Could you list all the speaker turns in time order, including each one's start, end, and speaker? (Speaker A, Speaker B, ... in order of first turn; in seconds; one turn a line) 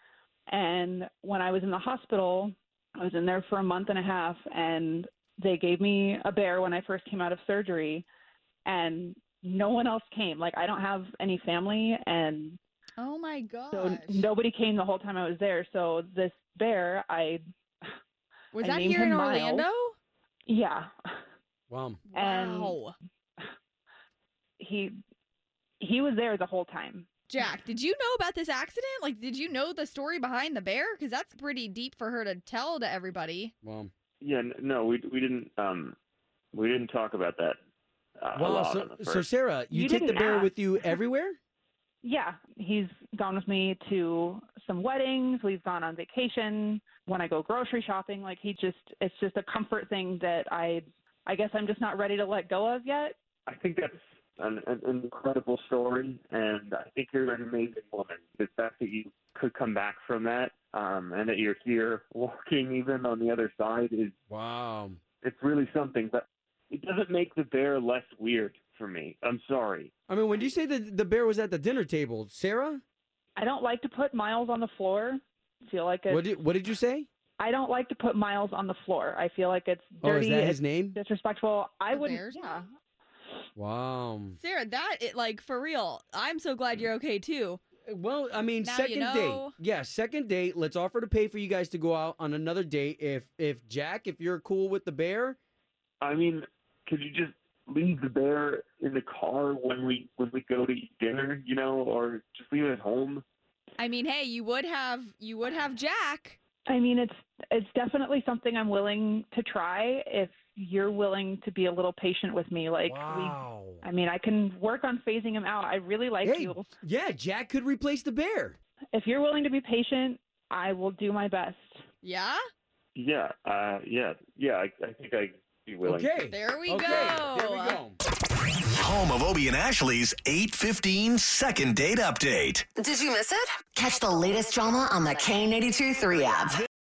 Speaker A: 0.5-8.1
Speaker A: 8.6-12.6
Speaker B: 13.0-14.3
Speaker A: 13.7-17.9
Speaker B: 18.5-19.9
Speaker A: 18.6-19.7
Speaker A: 20.5-21.2
Speaker C: 21.7-22.0
Speaker B: 22.1-22.9
Speaker A: 22.1-22.8
Speaker A: 24.6-24.9
Speaker A: 25.8-27.1
Speaker B: 27.3-33.5
Speaker C: 33.6-33.9
Speaker D: 34.2-35.9
Speaker D: 36.5-37.6
Speaker D: 38.2-39.2
Speaker C: 38.3-41.4
Speaker A: 39.7-40.5
Speaker A: 42.0-53.1
Speaker D: 53.5-64.1
Speaker C: 64.3-65.0
Speaker D: 65.2-69.9
Speaker C: 70.1-72.8
Speaker A: 73.3-76.2
Speaker C: 76.1-77.1
Speaker A: 77.4-82.6
Speaker C: 80.0-81.0
Speaker B: 81.9-82.6
Speaker C: 83.5-84.4
Speaker B: 84.4-87.6
Speaker C: 87.8-95.4
Speaker B: 88.6-89.5
Speaker D: 96.0-103.2
Speaker B: 103.8-106.4
Speaker A: 106.7-116.7
Speaker C: 112.8-113.8
Speaker C: 116.2-118.5
Speaker A: 118.9-121.8
Speaker B: 122.0-122.4
Speaker D: 123.0-126.2
Speaker C: 125.8-128.0
Speaker B: 126.3-127.8
Speaker D: 126.8-127.2
Speaker E: 128.7-132.7
Speaker F: 132.8-136.6